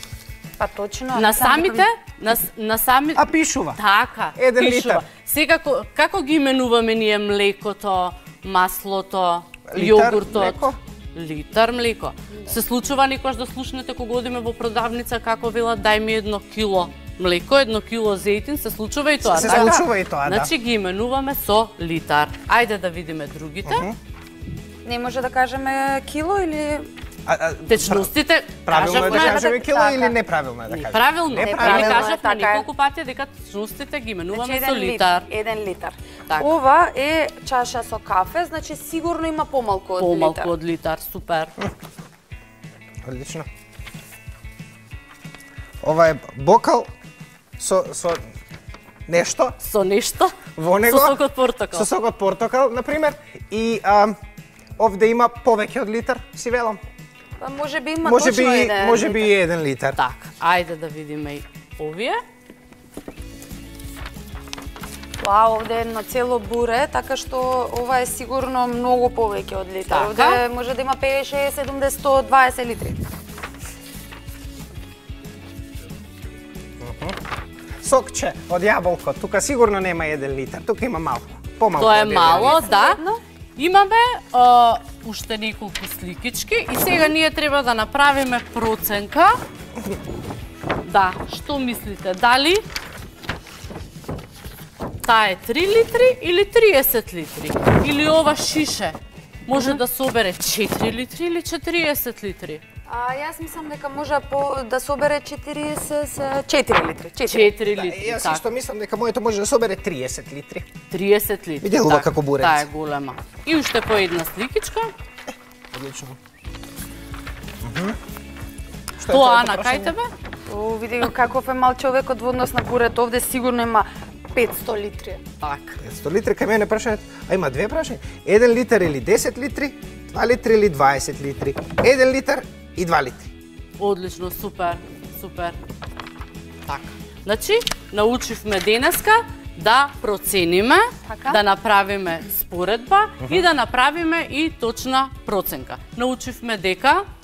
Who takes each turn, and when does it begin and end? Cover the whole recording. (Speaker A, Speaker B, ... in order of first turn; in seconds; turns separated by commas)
Speaker A: 0.6-1.8, Speaker B: 1.1-23.9, Speaker C: 3.1-3.8, Speaker C: 4.3-5.0, Speaker C: 9.7-10.8, Speaker C: 19.2-20.5, Speaker C: 23.6-23.9, Speaker A: 24.8-26.9, Speaker C: 27.3-28.1, Speaker B: 27.7-29.5, Speaker C: 28.6-32.1, Speaker A: 28.9-30.2, Speaker B: 30.7-35.3, Speaker A: 31.4-32.6, Speaker A: 34.3-40.5, Speaker B: 40.0-41.5, Speaker C: 43.0-43.5, Speaker C: 45.8-46.9, Speaker C: 47.6-48.2, Speaker C: 49.1-49.6, Speaker B: 49.6-51.9, Speaker C: 50.5-51.2, Speaker C: 51.7-54.1, Speaker C: 54.8-56.8, Speaker A: 57.4-59.3, Speaker C: 58.0-60.0, Speaker B: 59.9-62.2, Speaker A: 65.2-73.0, Speaker B: 69.9-70.4, Speaker C: 76.8-77.2, Speaker C: 77.8-82.6, Speaker B: 81.7-83.0, Speaker A: 82.4-83.2, Speaker B: 83.5-89.4, Speaker B: 90.8-92.6, Speaker B: 95.0-102.6, Speaker A: 99.5-99.8, Speaker A: 102.9-107.5, Speaker B: 107.2-108.4, Speaker C: 107.7-110.7, Speaker B: 110.9-114.9, Speaker C: 111.6-112.7, Speaker C: 115.7-116.2, Speaker C: 117.6-118.0, Speaker C: 119.0-119.9, Speaker B: 119.0-120.1, Speaker A: 120.5-125.2, Speaker B: 125.4-125.8, Speaker C: 125.8-133.3, Speaker B: 133.8-135.6, Speaker B: 136.7-147.0, Speaker A: 141.0-141.4